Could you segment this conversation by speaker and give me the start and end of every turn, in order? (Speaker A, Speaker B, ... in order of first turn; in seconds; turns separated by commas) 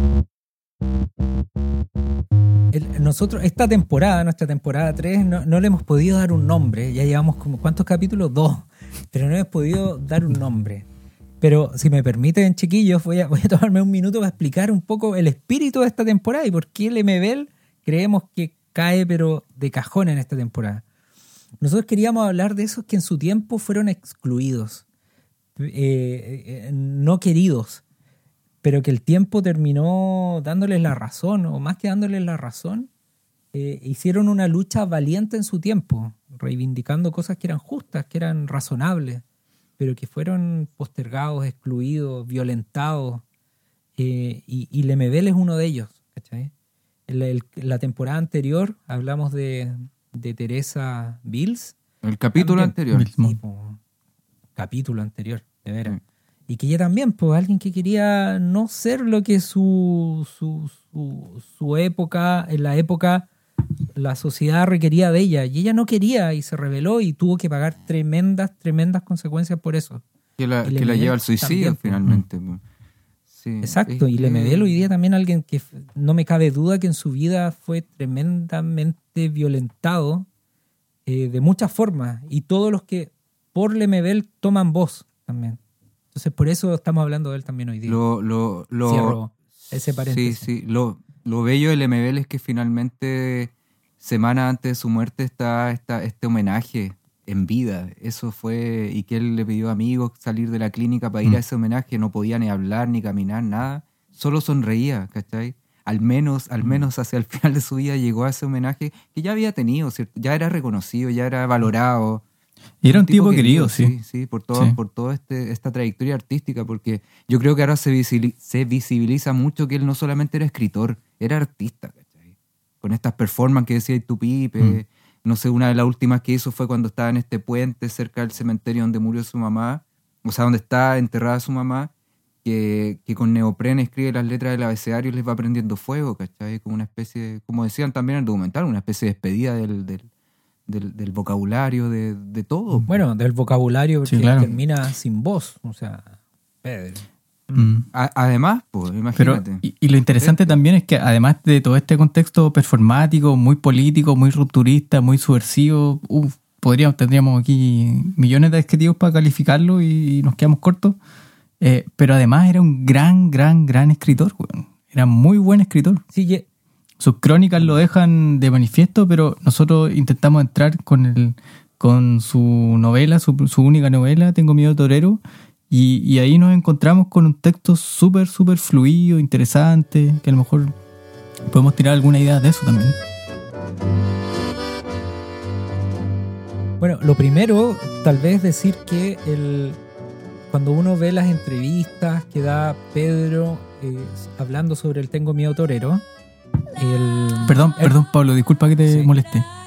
Speaker A: 2.7-10.9, Speaker A: 11.4-20.8, Speaker A: 21.6-24.8, Speaker A: 25.6-27.8, Speaker A: 28.6-32.9, Speaker A: 33.5-39.2, Speaker A: 39.8-43.2, Speaker A: 44.0-46.5, Speaker A: 47.1-51.8, Speaker B: 52.0-53.1, Speaker A: 52.4-53.8, Speaker C: 52.9-53.4, Speaker A: 54.6-56.0, Speaker A: 56.5-63.3, Speaker A: 64.0-70.0, Speaker B: 70.4-72.6, Speaker A: 70.6-72.0, Speaker B: 73.3-74.9, Speaker A: 73.6-80.3, Speaker A: 81.1-85.6, Speaker A: 86.1-88.0, Speaker B: 87.9-89.2, Speaker A: 88.9-90.5, Speaker B: 90.1-112.2, Speaker C: 112.8-113.9, Speaker B: 112.9-122.2, Speaker B: 122.8-131.9, Speaker B: 132.4-140.1, Speaker B: 140.7-142.9, Speaker A: 142.9-147.7, Speaker C: 144.1-144.5, Speaker C: 147.6-147.9, Speaker B: 147.9-150.6, Speaker C: 149.2-161.0, Speaker C: 161.6-166.0, Speaker A: 166.1-166.4, Speaker C: 167.0-180.7, Speaker C: 181.5-183.0, Speaker A: 186.8-189.8, Speaker A: 190.5-196.0, Speaker A: 196.8-198.0, Speaker C: 197.5-199.5, Speaker A: 198.9-199.1